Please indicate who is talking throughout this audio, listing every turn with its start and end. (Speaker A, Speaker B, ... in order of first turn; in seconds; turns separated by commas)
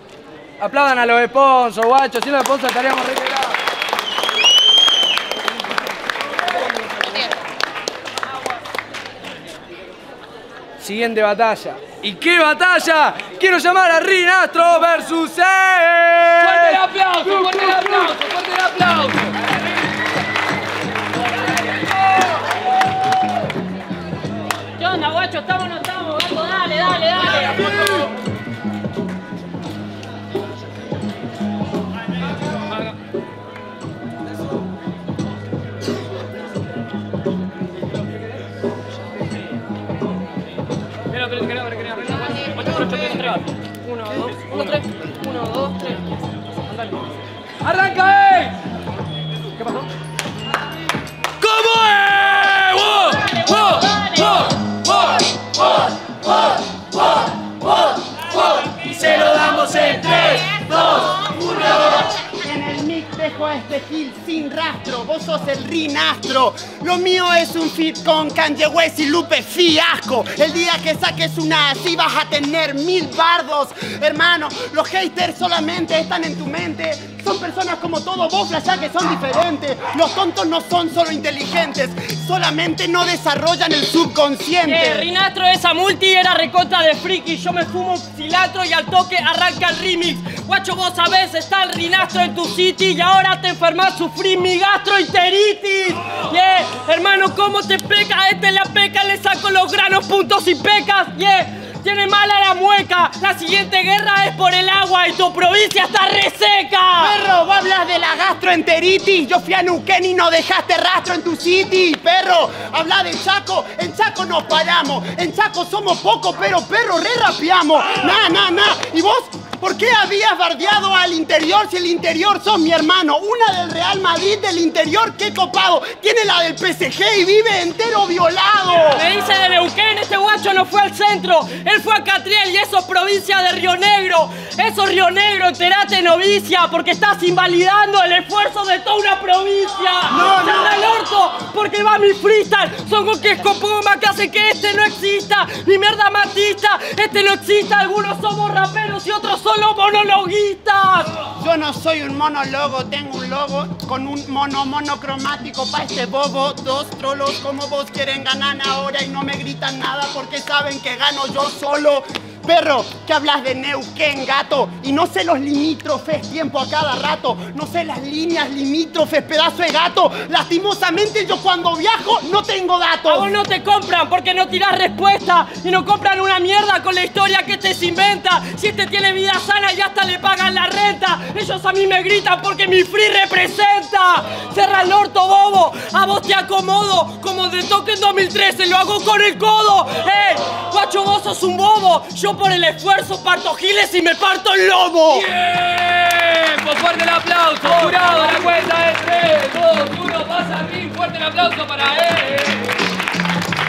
Speaker A: 0.6-3.6, Speaker A: 10.8-18.1, Speaker B: 16.4-19.1, Speaker B: 24.8-28.1, Speaker B: 41.1-46.0, Speaker A: 47.6-48.6, Speaker A: 51.4-53.5, Speaker B: 53.0-54.8, Speaker A: 58.8-60.1, Speaker C: 61.8-85.1, Speaker B: 84.7-107.1, Speaker C: 107.0-129.0, Speaker B: 128.7-151.2, Speaker A: 140.1-140.7, Speaker C: 151.4-173.3, Speaker B: 173.1-195.3, Speaker D: 195.2-202.6, Speaker B: 196.4-198.5